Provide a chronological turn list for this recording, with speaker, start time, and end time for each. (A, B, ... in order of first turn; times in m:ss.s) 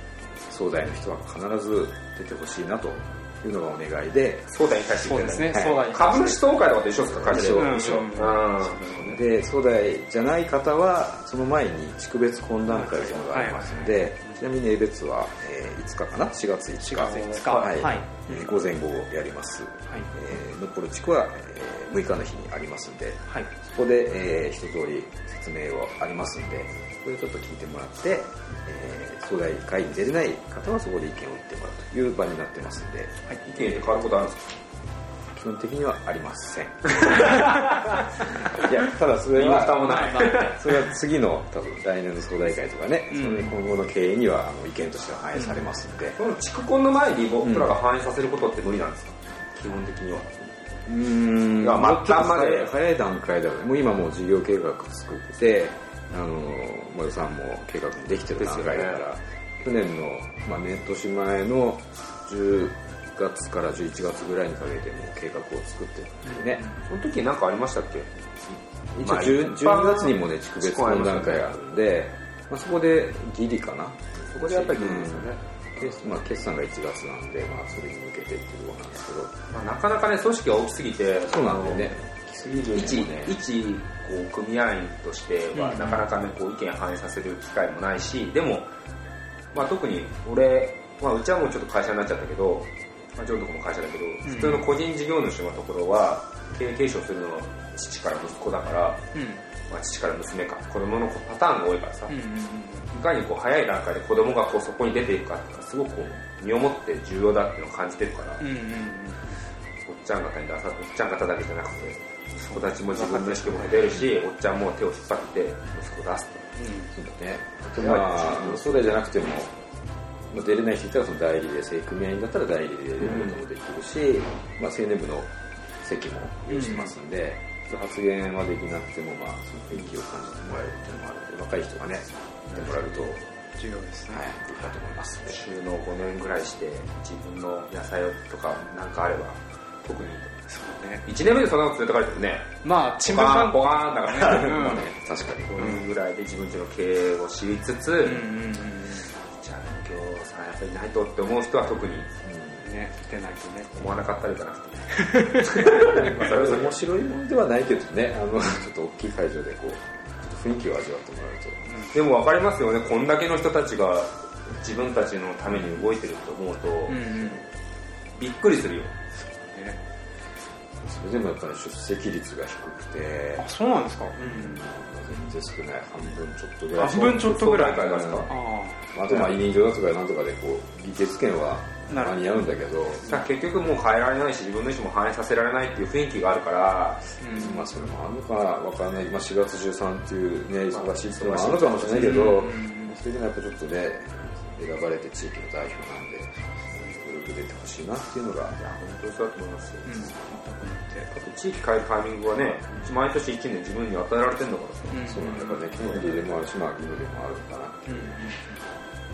0:00.4-0:04.5 A
0:04.5-0:09.2 B
0:05.0-0:06.4 C
0:05.5-0:05.9 A
0:07.0-0:08.0 A
0:07.3-0:08.6 C
0:08.9-0:33.7 A
0:12.7-0:14.4 C
0:16.8-0:18.5 C
0:17.2-0:17.8 B
0:33.4-0:34.6 B
0:35.3-0:46.2 A
0:36.9-0:38.1 B
0:39.3-0:40.9 B
0:39.8-0:40.6 C
0:43.1-0:43.6 C
0:45.4-0:45.7 C
0:46.2-0:50.3 B
0:47.4-0:47.8 A
0:50.9-1:06.6 A
0:51.6-0:52.7 B
0:58.4-0:59.0 B
1:06.3-1:06.8 C
1:06.8-1:08.1 B
1:08.9-1:19.4 A
1:09.0-1:11.6 B
1:14.3-1:15.4 B
1:19.5-1:22.0 B
1:21.2-1:23.4 A
1:22.7-1:28.7 B
1:25.6-1:26.1 C
1:29.5-1:39.0 B
1:34.2-1:34.7 C
1:39.1-1:39.4 C
1:39.7-1:42.2 B
1:42.1-1:42.9 C
1:42.9-1:48.4 B
1:48.4-1:49.3 C
1:49.9-1:56.5 B
1:52.4-1:54.0 C
1:56.6-1:56.9 C
1:56.9-1:59.5 A
1:57.7-1:58.8 B
2:00.3-2:13.2 A
2:03.0-2:03.4 B
2:06.5-2:06.9 C
2:12.5-2:13.1 B
2:13.6-2:14.7 C
2:14.1-2:15.4 A
2:15.3-2:20.3 B
2:20.5-2:21.1 C
2:21.1-2:24.9 B
2:22.6-2:24.9 C
2:24.3-2:25.8 A
2:25.5-2:28.4 B
2:28.0-2:29.1 C
2:29.2-2:32.1 B
2:32.2-2:32.6 A
2:32.6-2:34.0 C
2:33.7-2:36.8 B
2:34.9-2:36.3 C
2:35.9-2:41.7 A
2:41.7-2:42.0 C
2:41.9-2:47.2 B
2:45.5-2:45.8 A
2:46.9-2:47.4 C
2:48.2-2:48.9 B
2:49.2-2:49.8 C
2:50.8-2:53.5 A
2:53.4-2:54.6 C
2:54.2-2:58.3 A
2:56.8-2:59.2 C
2:56.8-2:58.3 B
2:58.9-3:03.1 A
3:01.9-3:02.2 C
3:03.1-3:07.2 B
3:07.2-3:07.7 C
3:07.3-3:18.6 A
3:10.7-3:12.4 B
3:11.9-3:12.9 C
3:18.6-3:20.2 B
3:19.9-3:21.1 C
3:21.1-3:26.4 B
3:24.9-3:25.7 C
3:25.0-3:28.3 A
3:27.9-3:28.6 C